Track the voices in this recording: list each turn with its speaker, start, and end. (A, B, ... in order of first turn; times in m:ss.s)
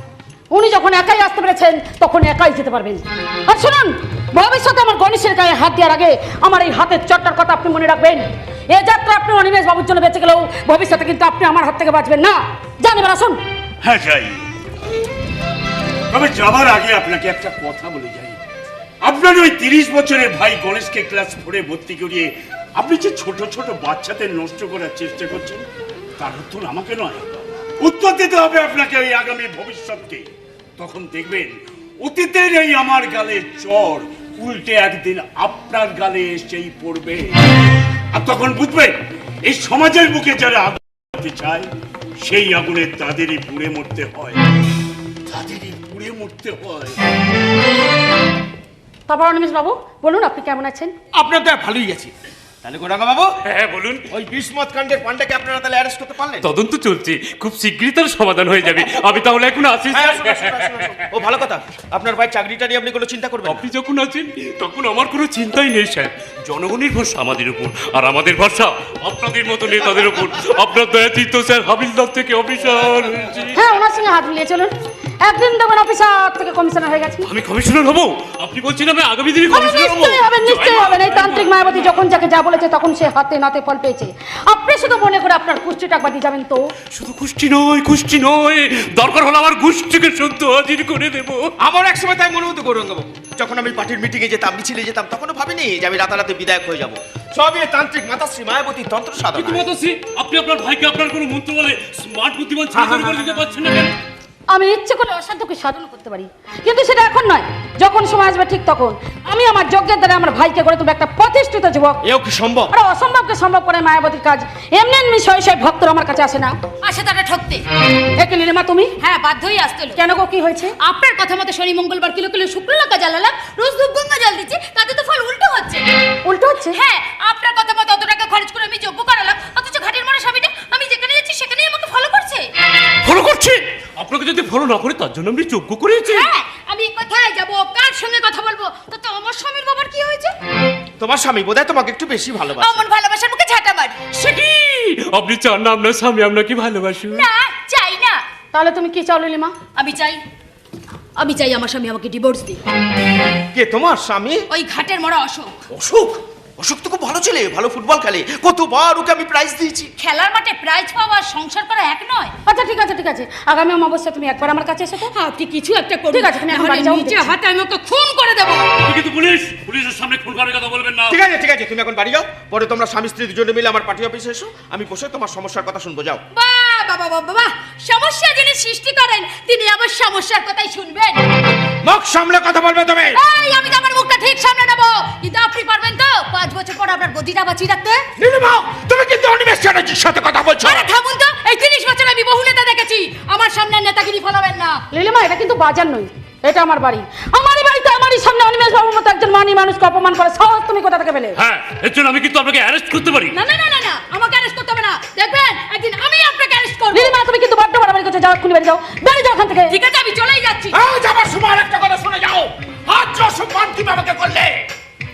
0:00.5-0:13.4 A
0:13.8-0:14.4 B
0:16.1-0:18.4 B
0:19.0-0:25.6 B
0:26.2-0:27.3 B
0:27.8-0:30.3 B
0:30.8-0:37.3 B
0:38.1-0:39.0 B
0:39.5-0:41.7 B
0:42.2-0:44.4 B
0:45.3-0:47.0 B
0:49.1-0:50.9 A
0:51.1-0:52.1 C
0:52.6-0:53.4 C
0:53.5-0:54.0 D
0:54.1-0:56.5 C
0:56.4-1:00.8 D
0:59.9-1:03.6 C
1:03.5-1:13.6 D
1:13.6-1:14.7 A
1:15.2-1:17.3 A
1:17.2-1:22.2 D
1:19.5-1:26.6 A
1:26.9-1:31.5 D
1:31.6-1:39.7 C
1:39.4-1:44.0 D
1:42.7-1:43.2 C
1:44.5-1:52.0 A
1:52.0-1:52.7 C
1:52.7-1:56.6 A
1:56.8-1:57.6 E
1:58.2-1:58.9 A
1:59.0-2:00.0 E
1:59.9-2:00.7 A
2:00.8-2:05.9 E
2:06.3-2:06.8 A
2:06.6-2:12.5 E
2:13.0-2:16.3 D
2:16.1-2:20.4 E
2:21.0-2:22.8 C
2:22.6-2:24.2 E
2:24.2-2:27.3 D
2:27.0-2:28.2 E
2:28.5-2:29.6 A
2:29.7-2:30.2 E
2:31.2-2:32.6 E
2:33.5-2:34.5 C
2:34.5-2:35.6 E
2:35.7-2:39.9 C
2:40.0-2:42.4 E
2:42.5-2:45.1 A
2:45.0-2:48.7 E
2:46.1-2:47.3 A
2:48.8-2:51.1 D
2:51.1-2:56.2 C
2:56.4-3:01.3 E
3:01.8-3:03.2 C
3:03.1-3:08.1 E
3:08.2-3:10.9 C
3:10.6-3:14.8 E
3:14.9-3:21.3 A
3:21.4-3:23.4 D
3:23.3-3:27.2 E
3:26.9-3:29.8 A
3:29.7-3:30.8 E
3:30.7-3:34.6 C